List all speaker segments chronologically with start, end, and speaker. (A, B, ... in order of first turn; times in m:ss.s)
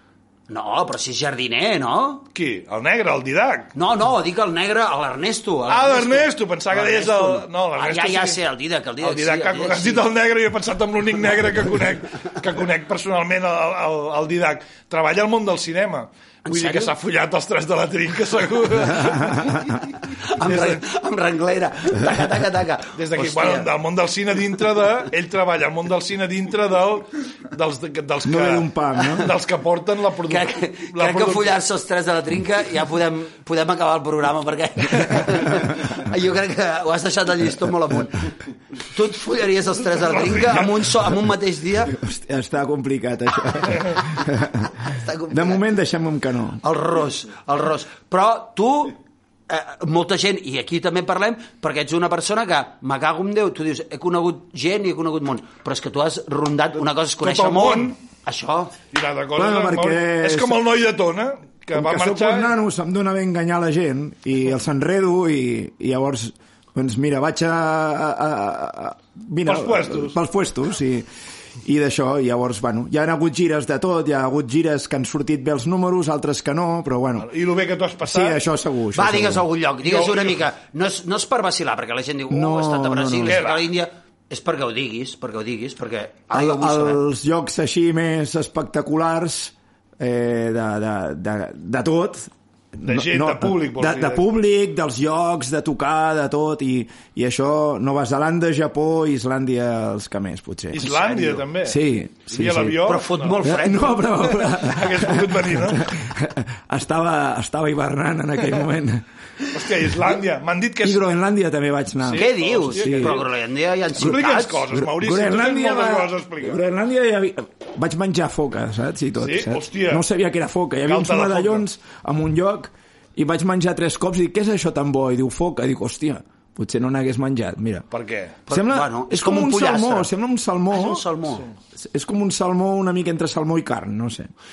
0:00.5-0:02.2 A
0:02.3-0:03.7 B
0:03.7-0:10.0 A
0:05.7-0:08.4 B
0:09.0-0:19.8 B
0:16.4-0:16.9 A
0:20.1-0:23.7 A
0:20.4-0:20.8 B
0:22.9-0:31.6 B
0:28.2-0:29.3 C
0:30.3-0:42.0 A
0:40.0-0:41.0 B
0:41.9-0:46.6 C
0:44.8-0:45.6 A
0:46.6-0:49.0 A
0:49.5-0:58.7 A
0:57.2-0:58.0 B
0:58.9-1:02.5 B
0:59.4-1:00.6 C
1:01.7-1:11.1 C
1:09.4-1:10.2 B
1:11.6-1:17.3 C
1:17.2-1:18.4 B
1:18.0-1:19.4 C
1:18.9-1:27.0 A
1:19.8-1:20.4 B
1:22.3-1:23.4 C
1:23.2-1:23.7 B
1:26.3-1:49.0 C
1:32.8-1:34.2 B
1:40.7-1:43.4 B
1:42.8-1:44.1 A
1:44.4-1:45.9 B
1:49.5-1:51.0 B
1:49.6-1:49.9 C
1:50.8-1:53.2 C
1:52.0-1:53.3 B
1:52.1-1:54.6 A
1:54.0-1:56.6 B
1:54.7-2:07.8 C
1:59.2-2:00.0 B
2:00.8-2:01.6 B
2:07.9-2:08.4 B
2:08.5-2:10.1 A
2:08.5-2:11.0 C
2:10.7-2:11.5 A
2:11.8-2:14.3 C